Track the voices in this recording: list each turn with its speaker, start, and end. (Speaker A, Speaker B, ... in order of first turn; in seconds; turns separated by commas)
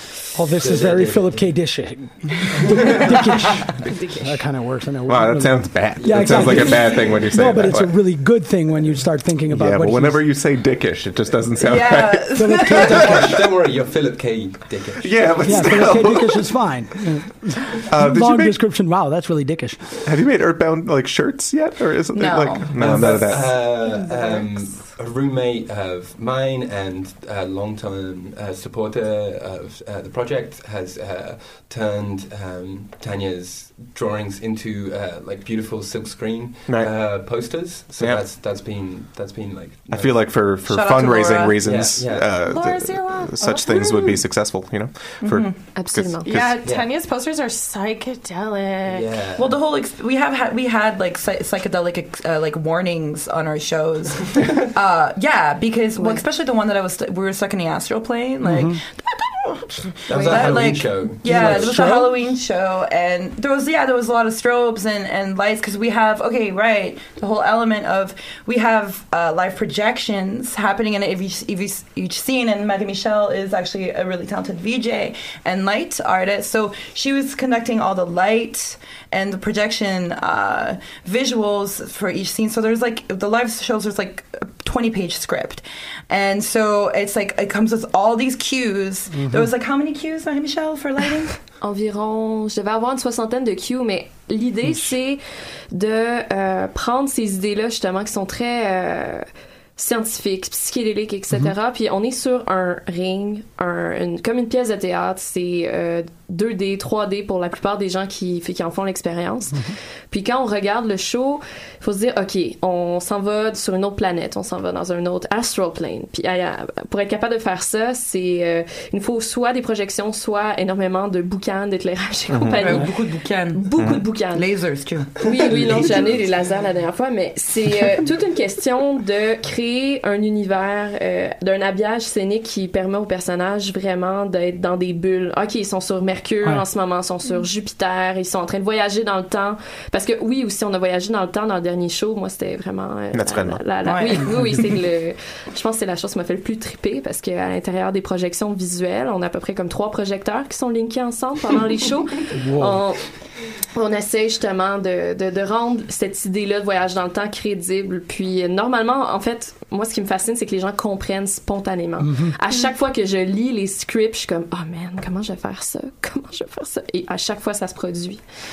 Speaker A: 0.3-10.4, Speaker B: 0.6-1.9, Speaker B: 2.7-3.0, Speaker C: 3.9-4.4, Speaker D: 5.0-8.2, Speaker B: 6.0-7.7, Speaker D: 9.5-12.6, Speaker E: 11.6-13.4, Speaker A: 12.3-13.5, Speaker B: 13.0-16.2, Speaker D: 15.0-16.9, Speaker A: 15.4-20.0, Speaker D: 17.9-18.6, Speaker D: 20.1-23.7, Speaker E: 22.1-24.1, Speaker B: 22.7-40.4, Speaker D: 36.7-38.2, Speaker D: 39.9-46.6, Speaker E: 40.6-41.9, Speaker B: 41.6-42.3, Speaker F: 42.3-44.2, Speaker E: 45.2-45.6, Speaker C: 45.7-46.4, Speaker F: 46.2-49.2, Speaker B: 46.6-46.9, Speaker B: 48.8-49.6, Speaker E: 49.4-91.4, Speaker A: 58.4-58.8, Speaker B: 60.1-61.8, Speaker A: 61.2-62.3, Speaker A: 89.1-89.5, Speaker C: 91.6-168.2, Speaker D: 122.3-122.9, Speaker E: 122.6-126.2, Speaker D: 123.8-124.0, Speaker B: 125.5-126.1, Speaker D: 143.1-143.6, Speaker E: 143.8-144.3, Speaker A: 152.3-152.9, Speaker A: 162.0-162.3